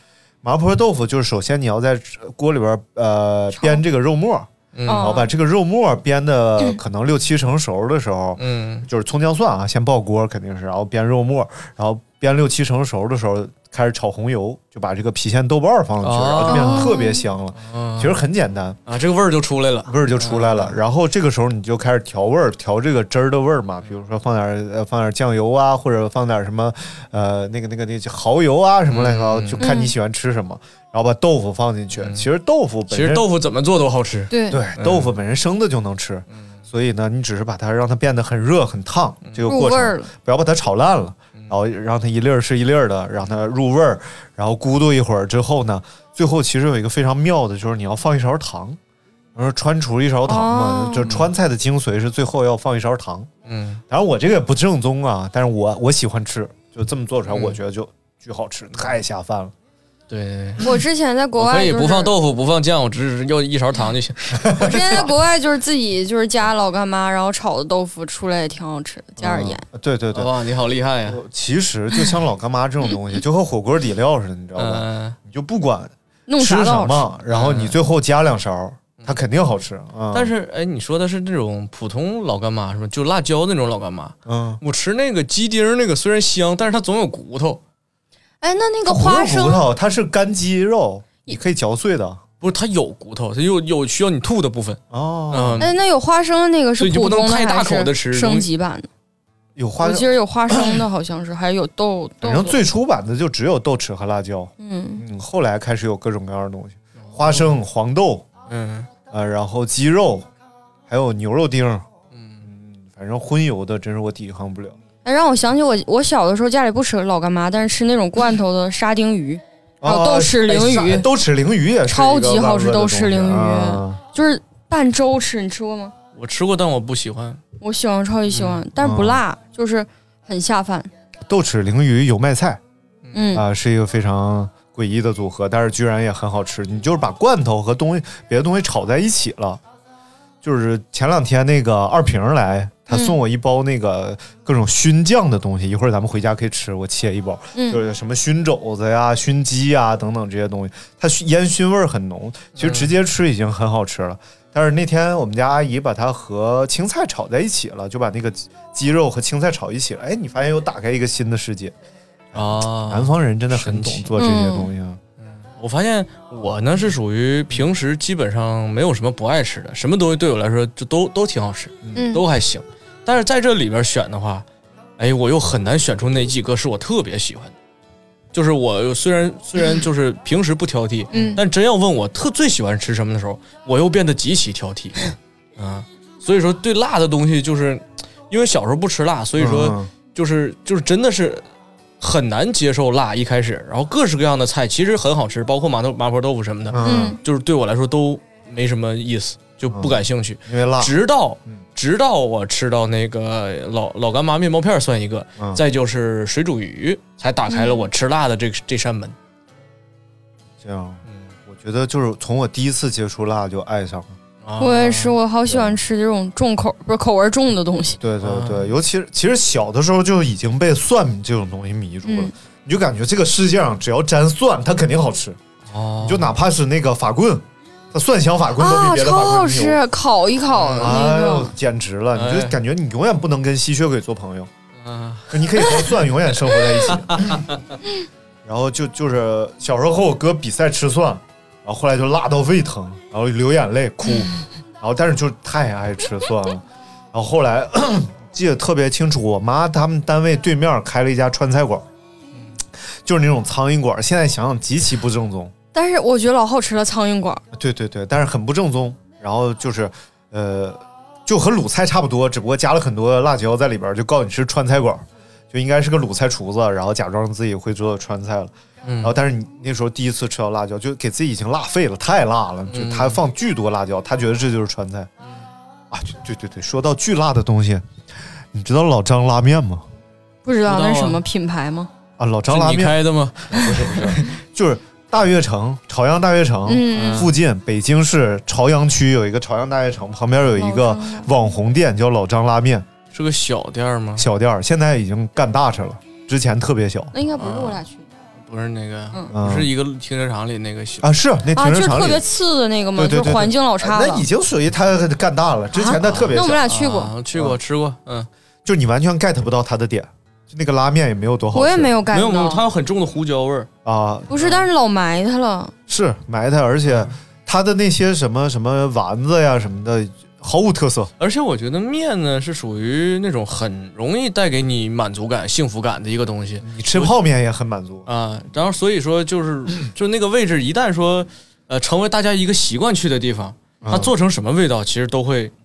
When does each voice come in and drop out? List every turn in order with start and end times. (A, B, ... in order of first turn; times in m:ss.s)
0:00.4-0:18.8 A
0:04.8-0:05.1 B
0:04.9-0:05.3 C
0:08.4-0:08.9 B
0:16.0-0:16.9 B
0:16.5-0:17.2 C
0:17.6-0:18.2 B
0:18.9-0:20.8 B
0:19.9-0:33.2 A
0:28.9-0:29.6 B
0:29.6-0:29.9 C
0:32.0-0:32.3 B
0:32.9-0:35.1 B
0:34.3-0:34.6 C
0:34.5-0:48.8 A
0:36.3-0:36.6 B
0:39.5-0:40.1 C
0:49.4-0:53.3 A
0:50.3-0:51.1 C
0:53.4-0:53.8 B
0:53.9-0:59.5 A
0:57.3-0:57.6 B
1:00.1-1:00.7 B
1:00.6-1:02.1 C
1:01.4-1:05.1 B
1:04.4-1:05.1 A
1:04.6-1:09.6 C
1:09.2-1:10.3 A
1:10.1-1:11.2 B
1:11.1-1:20.3 A
1:14.6-1:15.2 B
1:16.3-1:17.1 C
1:17.3-1:17.8 B
1:20.1-1:27.6 B
1:24.3-1:24.6 A
1:28.4-1:29.6 C
1:28.8-1:32.2 A
1:32.4-1:34.8 B
1:34.9-1:35.7 A
1:35.3-1:35.7 B
1:35.6-1:38.9 C
1:36.8-1:38.5 B
1:39.6-1:40.8 A
1:39.8-1:42.6 C
1:42.2-1:48.3 A
1:44.6-1:45.0 C
1:47.0-1:47.5 B
1:48.5-1:48.9 B
1:49.1-1:50.3 A
1:50.9-1:51.9 A
1:52.1-1:52.4 B
1:52.4-1:54.8 A
1:55.0-2:01.1 C
1:59.8-2:04.0 A
2:01.9-2:05.9 C
2:06.1-2:07.4 B
2:07.6-2:10.9 C
2:08.3-2:08.6 B
2:08.8-2:09.2 A
2:11.3-2:12.6 A
2:13.1-2:13.5 C
2:13.3-2:19.6 A
2:20.4-2:41.8 A
2:22.9-2:23.2 C
2:27.6-2:27.8 C
2:32.6-2:32.9 B
2:42.3-2:45.0 A
2:42.3-2:44.1 B
2:44.2-2:44.7 C
2:45.2-2:54.5 B
2:51.9-2:52.2 C
2:55.0-2:57.5 B
2:58.3-3:05.0 B
3:01.1-3:01.4 C
3:01.1-3:01.4 A
3:05.6-3:11.4 B
3:09.4-3:09.9 A
3:12.0-3:29.2 B
3:16.7-3:17.2 A
3:16.8-3:17.2 C
3:19.7-3:20.9 A
3:27.5-3:27.9 C
3:30.6-3:34.2 A
3:34.4-3:35.1 B
3:34.6-3:38.0 C
3:35.5-3:35.8 A
3:38.0-3:45.4 A
3:38.2-3:38.7 B
3:42.0-3:42.3 C
3:45.7-3:46.3 B
3:46.0-3:49.8 A
3:48.6-3:51.5 C
3:50.5-3:51.0 B
3:50.8-3:54.5 A
3:52.1-3:52.6 B
3:54.8-3:55.4 B
3:55.3-3:57.4 A
3:56.9-3:57.6 B
3:58.4-4:11.9 A
4:13.0-4:15.5 A
4:15.7-4:17.4 C
4:17.5-4:35.1 A
4:28.8-4:29.1 B
4:32.7-4:33.2 B
4:35.9-4:37.9 A
4:38.5-4:39.8 A
4:40.4-4:41.9 C
4:40.6-4:41.2 B
4:42.2-4:52.9 A
4:42.5-4:44.3 B
4:46.7-4:47.3 C
4:46.9-4:47.3 B
4:50.6-4:51.3 C
4:53.1-4:54.3 B
4:54.2-4:57.1 A
4:57.1-4:58.1 C
4:57.4-4:57.8 B
4:58.4-5:01.1 B
4:59.3-4:59.7 A
5:01.0-5:02.2 A
5:01.6-5:04.2 C
5:03.0-5:06.6 A
5:05.7-5:07.1 C
5:06.0-5:08.3 B
5:08.6-5:11.9 A
5:11.5-5:12.6 C
5:12.1-5:13.7 B
5:13.8-5:14.3 A
5:14.3-5:15.7 C
5:14.4-5:14.7 B
5:15.9-5:21.1 A
5:16.9-5:17.1 B
5:21.2-5:27.1 B
5:26.6-5:28.1 A
5:28.1-5:35.5 B
5:33.8-5:34.1 A